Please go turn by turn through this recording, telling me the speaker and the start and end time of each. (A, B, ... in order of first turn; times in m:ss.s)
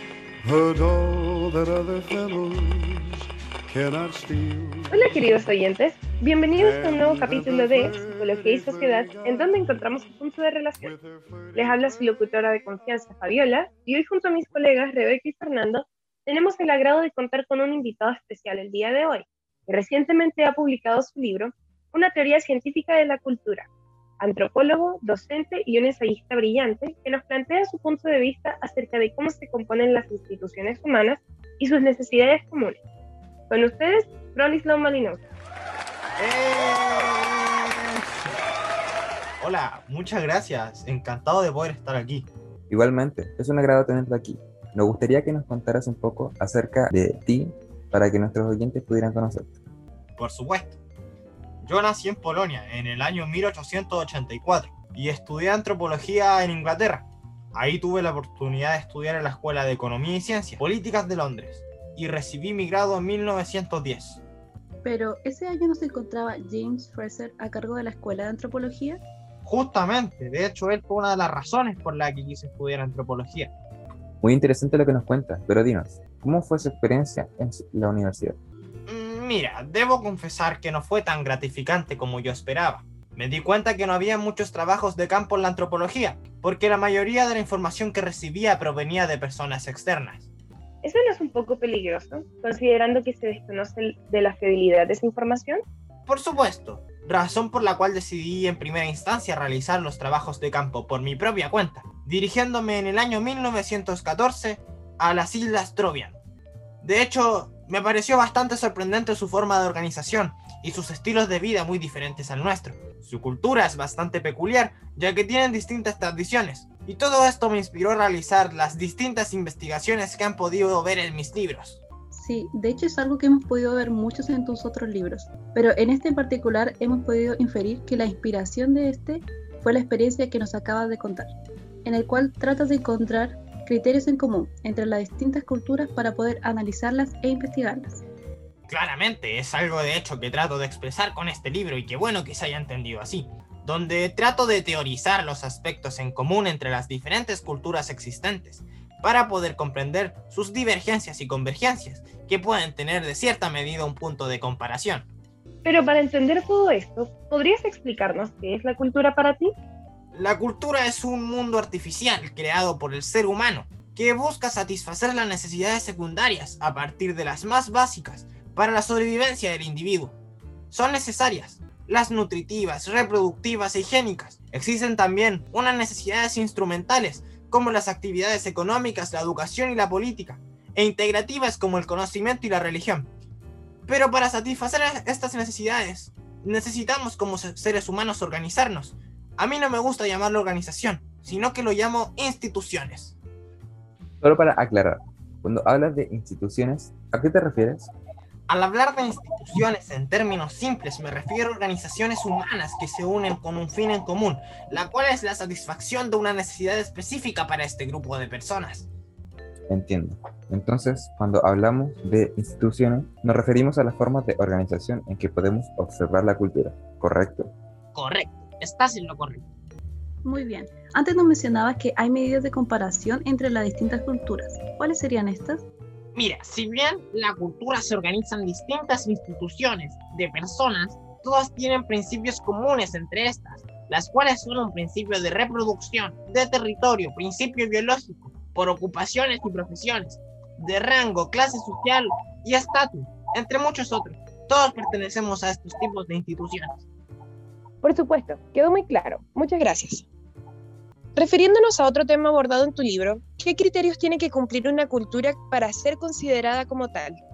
0:00.4-0:05.5 A
0:04.9-0:10.9 B
0:06.1-0:10.1 A
0:10.8-0:12.2 A
0:11.5-0:23.6 B
0:24.2-0:32.8 B
0:33.5-0:35.2 B
0:36.2-0:38.0 C
0:39.4-0:42.3 C
0:42.7-0:49.6 D
0:50.2-0:50.8 C
0:51.6-1:04.2 C
1:04.8-1:09.0 E
1:09.4-1:13.5 C
1:14.2-1:18.4 D
1:18.9-1:30.3 C
1:30.8-1:35.6 B
1:36.1-1:46.2 C
1:46.8-2:01.8 C
2:02.1-2:11.3 E
2:11.8-2:18.0 E
2:18.7-2:35.1 C
2:35.6-2:39.5 B
2:40.1-2:50.2 C
2:50.7-3:03.1 C
3:03.9-3:13.2 C
3:14.2-3:17.9 D
3:18.5-3:28.9 C
3:29.7-3:37.5 D
3:37.9-3:39.4 C
3:40.2-3:45.6 E
3:46.1-4:06.8 C
4:07.8-4:10.0 B
4:11.2-4:17.2 B